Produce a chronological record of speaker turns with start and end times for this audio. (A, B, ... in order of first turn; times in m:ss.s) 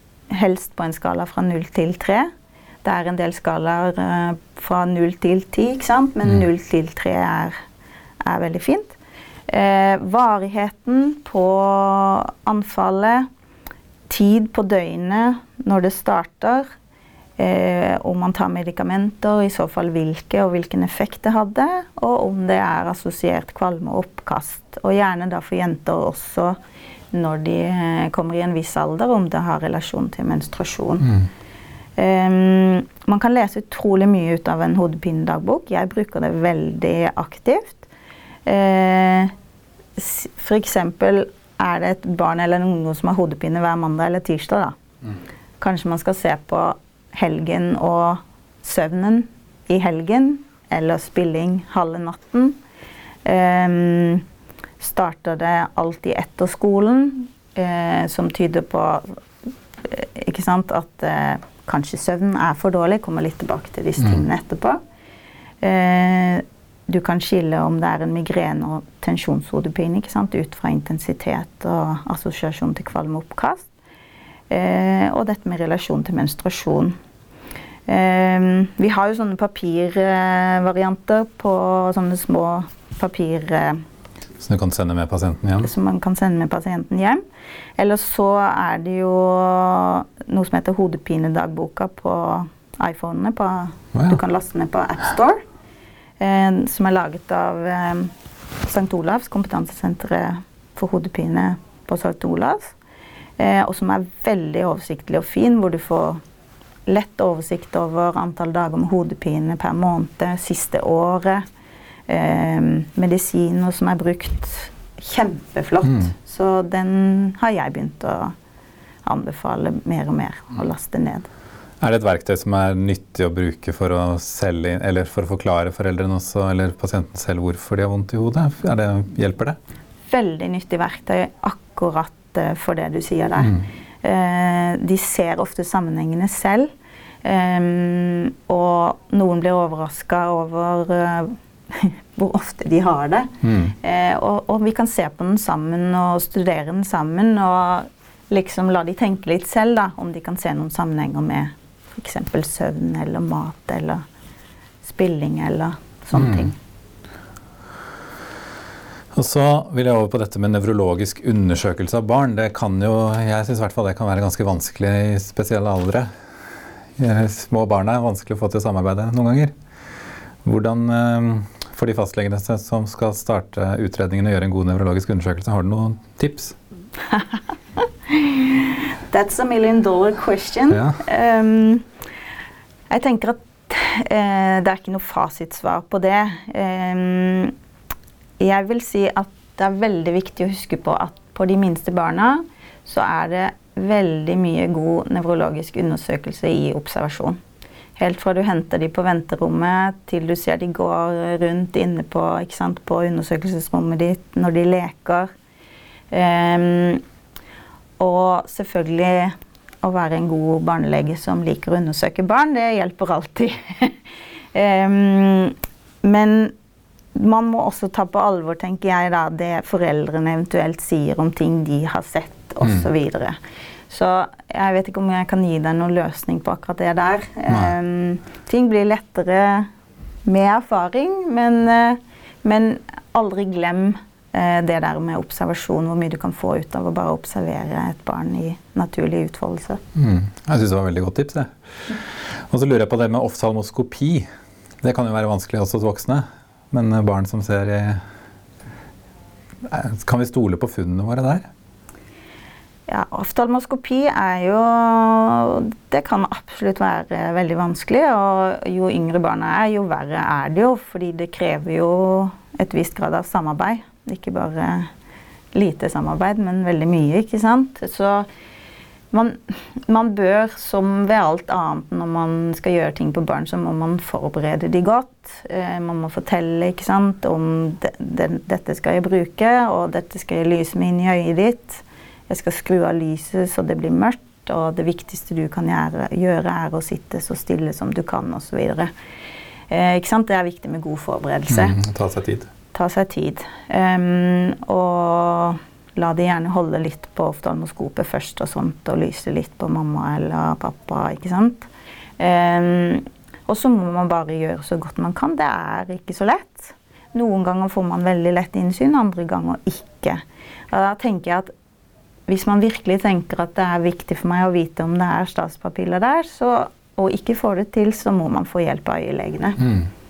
0:00.3-0:02.3 A
0:02.8-0:07.6 A
0:08.2-0:09.0 A
0:09.5-0:13.3 A
0:14.1-0:16.7 A
0:17.4-0:26.6 A
0:27.1-0:31.1 A
0:32.0-0:37.9 A
0:38.4-0:39.3 A
0:40.0-0:44.8 A
0:45.6-0:52.6 A
0:53.2-0:54.2 A
0:54.8-0:59.2 A
0:59.8-1:04.8 A
1:05.6-1:13.7 A
1:14.5-1:16.9 A
1:17.9-1:23.8 A
1:24.4-1:25.7 B
1:25.6-1:27.2 A
1:27.8-1:35.4 A
1:36.2-1:38.1 A
1:38.6-1:42.7 A
1:43.4-1:46.2 A
1:46.9-1:51.4 A
1:52.1-1:58.3 A
1:59.0-2:01.3 A
2:01.8-2:09.6 B
2:10.1-2:16.7 A
2:17.2-2:34.0 A
2:23.4-2:23.7 B
2:34.8-2:36.6 A
2:36.2-2:36.5 B
2:39.1-2:46.1 B
2:47.0-2:49.5 B
2:50.4-2:56.6 B
2:58.1-3:01.8 A
3:00.7-3:01.0 B
3:02.9-3:07.5 A
3:08.4-3:17.4 A
3:18.0-3:25.3 A
3:26.1-3:27.0 A
3:28.0-3:34.0 A
3:34.5-3:36.5 A
3:37.1-3:43.4 A
3:43.9-3:49.7 A
3:50.2-3:59.8 A
3:59.9-4:01.5 B
4:02.5-4:04.3 B
4:04.8-4:08.0 B
4:09.6-4:11.5 B
4:12.9-4:24.9 A
4:25.5-4:28.3 A
4:29.1-4:48.9 A
4:49.7-4:51.8 A
4:51.5-4:52.5 B
4:52.7-5:01.7 A
5:02.2-5:11.5 A
5:12.3-5:19.6 A
5:19.6-5:19.9 B